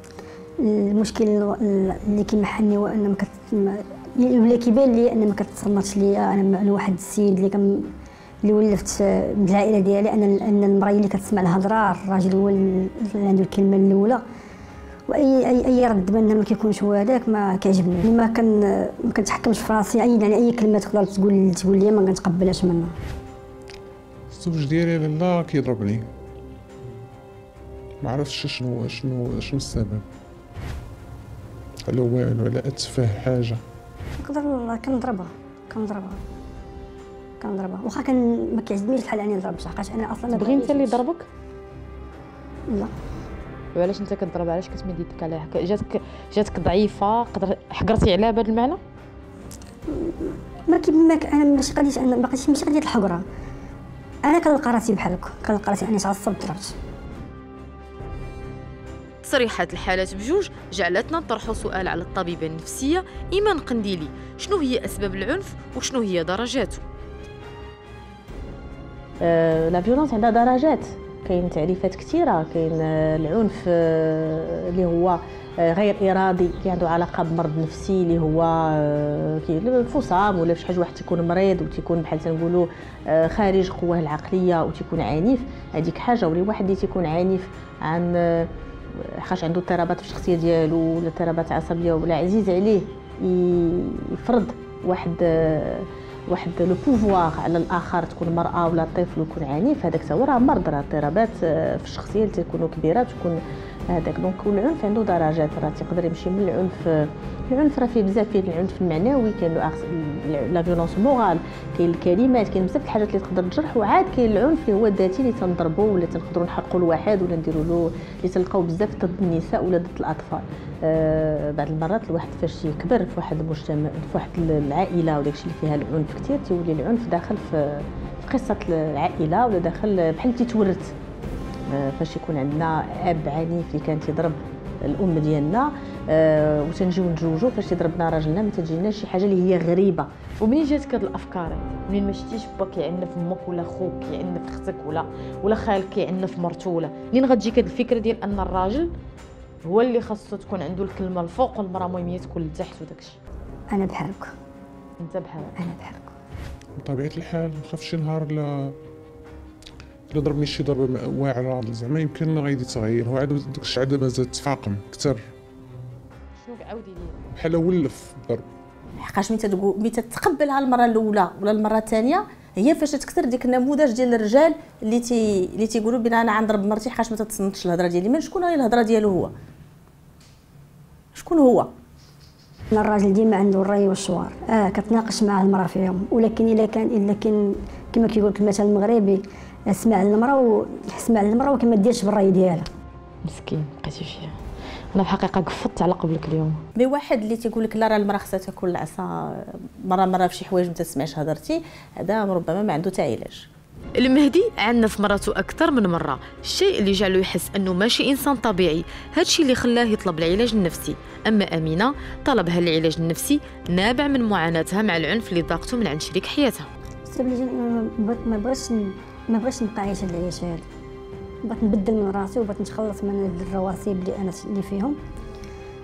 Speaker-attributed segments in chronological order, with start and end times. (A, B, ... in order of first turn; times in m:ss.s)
0:00.6-0:07.9 A
0:08.4-0:14.2 A
0:15.1-0:22.9 A
0:24.3-0:26.1 B
0:28.0-0:30.0 B
0:31.9-0:33.6 B
0:34.2-0:36.2 A
0:37.4-0:41.0 A
0:40.3-0:41.3 C
0:43.8-0:48.8 C
0:49.9-0:53.2 A
0:54.2-0:56.7 A
0:59.2-1:06.8 C
1:09.2-2:10.9 D
2:11.7-2:20.1 D
2:20.4-2:28.9 C
2:29.7-2:33.2 C
2:33.7-2:34.3 A
2:35.0-2:35.5 C
2:35.6-2:36.1 A
2:36.8-2:38.8 B
2:40.1-2:45.2 B
2:46.4-2:47.2 C
2:47.3-2:48.5 B
2:49.0-2:59.3 D
3:01.2-3:01.7 D
3:02.7-3:07.4 A
3:07.9-3:12.7 A
3:13.3-3:14.4 C
3:14.9-3:16.6 C
3:16.8-3:23.5 D
3:24.0-3:36.7 C
3:37.1-3:40.7 A
3:41.4-3:45.0 A